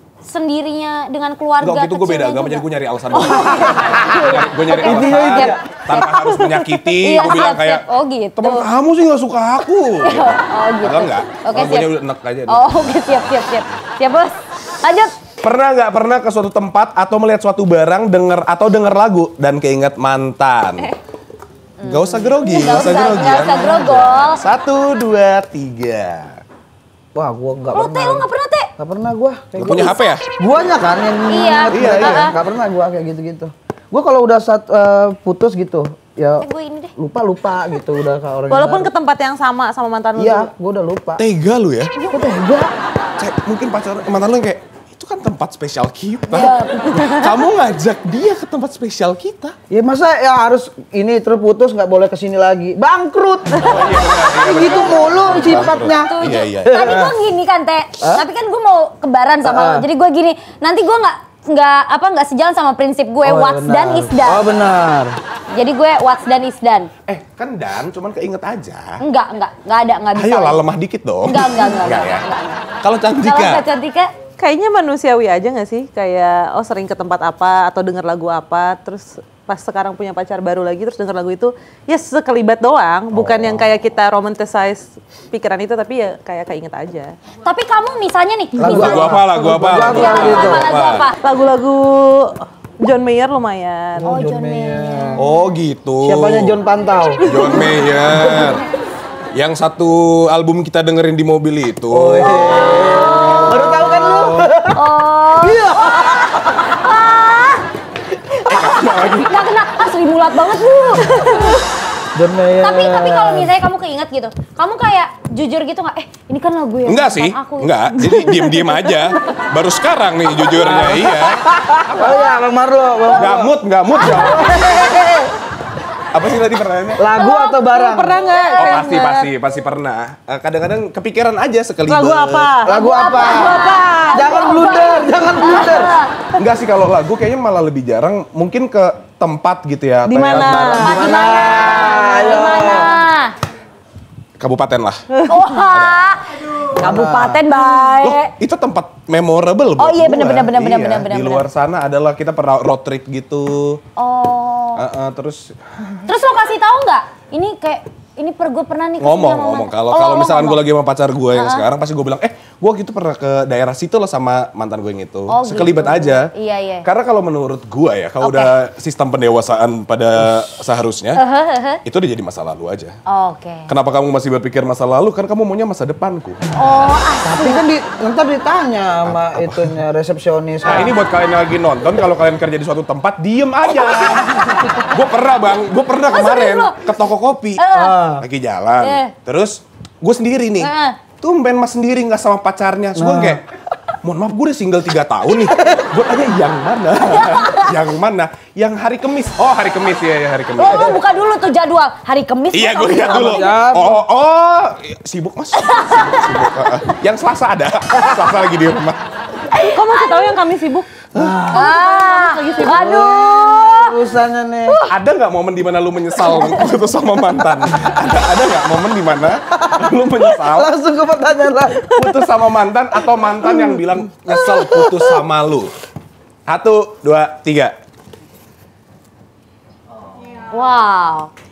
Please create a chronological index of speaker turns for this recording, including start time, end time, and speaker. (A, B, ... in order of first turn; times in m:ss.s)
0:00.2-0:06.0 A
0:01.6-0:07.9 B
0:04.7-0:06.0 C
0:06.0-0:06.8 D
0:07.0-0:08.7 A
0:08.4-0:13.2 B
0:10.0-0:11.9 A
0:12.5-0:15.1 A
0:15.4-0:20.9 B
0:21.8-0:24.4 A
0:21.8-0:26.4 B
0:27.2-0:28.3 C
0:27.7-0:28.7 A
0:28.8-0:36.5 C
0:29.6-0:30.2 B
0:29.7-0:30.1 A
0:31.3-0:32.4 A
0:31.7-0:32.3 B
0:36.4-0:36.9 A
0:37.0-0:38.9 C
0:38.5-0:40.5 D
0:40.2-0:41.2 C
0:41.2-0:41.9 B
0:42.1-0:42.7 C
0:43.2-0:49.6 B
0:46.3-0:47.4 A
0:49.7-0:57.2 C
0:53.6-0:57.1 B
0:53.8-1:04.4 A
0:58.0-0:58.3 C
0:59.4-0:59.9 C
1:03.2-1:05.2 C
1:05.5-1:06.9 A
1:07.1-1:09.0 B
1:09.0-1:10.6 A
1:10.2-1:12.3 B
1:11.2-1:12.7 A
1:12.8-1:13.6 B
1:13.2-1:14.1 A
1:14.4-1:27.1 D
1:23.1-1:23.6 B
1:27.4-1:29.2 A
1:28.6-1:30.7 C
1:28.6-1:31.1 B
1:29.8-1:31.2 A
1:31.2-1:34.1 D
1:34.0-1:35.3 C
1:34.0-1:35.2 A
1:35.2-1:36.6 B
1:36.0-1:37.3 C
1:37.2-1:37.7 D
1:37.3-1:38.6 B
1:38.2-1:38.6 C
1:39.3-1:44.5 B
1:41.9-1:44.8 C
1:42.2-1:43.9 A
1:44.7-1:47.6 A
1:45.4-1:46.6 C
1:48.4-1:51.6 A
1:48.5-1:49.3 B
1:52.2-1:53.5 C
1:52.6-1:58.0 A
1:56.8-2:02.3 B
1:58.0-1:59.0 D
2:00.5-2:05.3 C
2:02.0-2:02.4 A
2:03.0-2:05.2 A
2:03.1-2:05.0 B
2:06.1-2:07.0 B
2:07.0-2:08.3 C
2:07.2-2:07.6 A
2:07.2-2:09.3 D
2:08.2-2:08.8 A
2:08.5-2:12.5 B
2:11.9-2:14.4 D
2:12.6-2:15.9 C
2:12.7-2:16.1 A
2:16.4-2:21.6 B
2:20.0-2:21.0 D
2:20.3-2:23.0 C
2:20.8-2:23.3 A
2:24.4-2:25.1 B
2:25.3-2:28.3 A
2:25.6-2:26.2 B
2:26.8-2:27.4 C
2:28.0-2:33.8 B
2:29.8-2:31.5 A
2:34.0-2:34.8 A
2:34.8-2:36.1 B
2:36.1-2:40.6 A
2:39.0-2:46.3 B
2:41.3-2:41.7 A
2:45.3-2:46.9 A
2:46.8-2:51.2 B
2:48.2-2:48.5 A
2:51.2-2:51.8 A
2:51.8-2:53.0 B
2:53.1-2:53.7 A
2:53.7-2:56.4 B
2:56.6-2:57.6 A
2:57.2-3:01.0 C
2:59.1-2:59.7 B
3:00.6-3:07.7 B
3:03.8-3:04.7 A
3:06.1-3:06.8 A
3:07.6-3:08.0 A
3:07.7-3:08.2 C
3:08.2-3:13.4 B
3:08.8-3:09.1 A
3:10.6-3:11.0 A
3:13.0-3:13.4 C
3:14.0-3:21.0 B
3:17.1-3:17.7 A
3:20.6-3:23.5 A
3:22.5-3:29.0 B
3:23.0-3:24.0 C
3:25.6-3:26.5 A
3:29.5-3:30.4 A
3:29.6-3:33.0 D
3:31.1-3:31.8 C
3:31.5-3:34.0 A
3:32.6-3:34.8 C
3:34.7-3:35.0 A
3:34.9-3:40.7 B
3:36.3-3:36.6 A
3:39.6-3:42.1 C
3:41.9-3:45.7 B
3:43.5-3:45.1 C
3:46.5-3:47.8 B
3:50.5-3:51.3 A